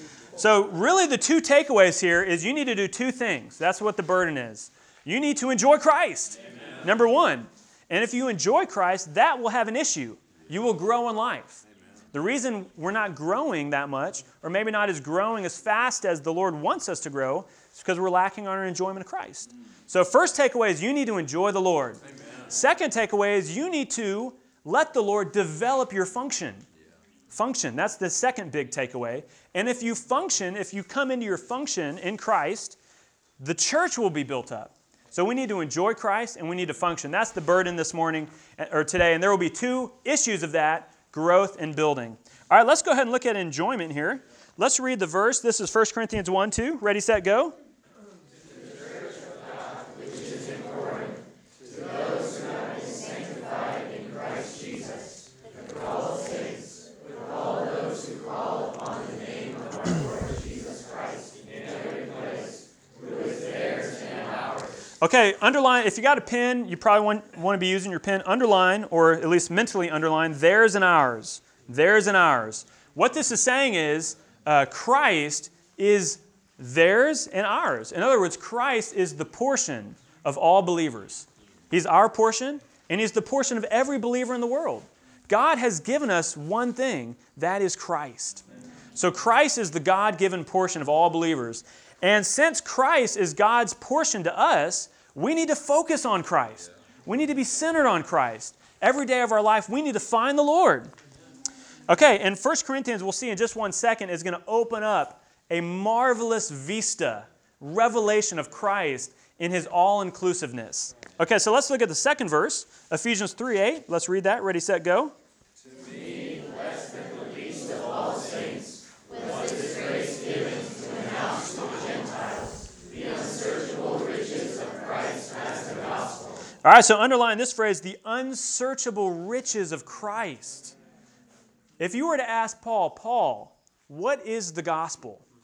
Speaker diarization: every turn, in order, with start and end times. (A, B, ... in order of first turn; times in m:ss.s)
0:00.4-0:26.7 A
0:27.3-0:32.8 A
0:33.4-0:47.6 A
1:05.0-1:28.4 A
1:29.0-1:40.9 A
1:41.9-1:55.1 A
2:06.6-2:10.8 A
2:11.8-2:15.3 A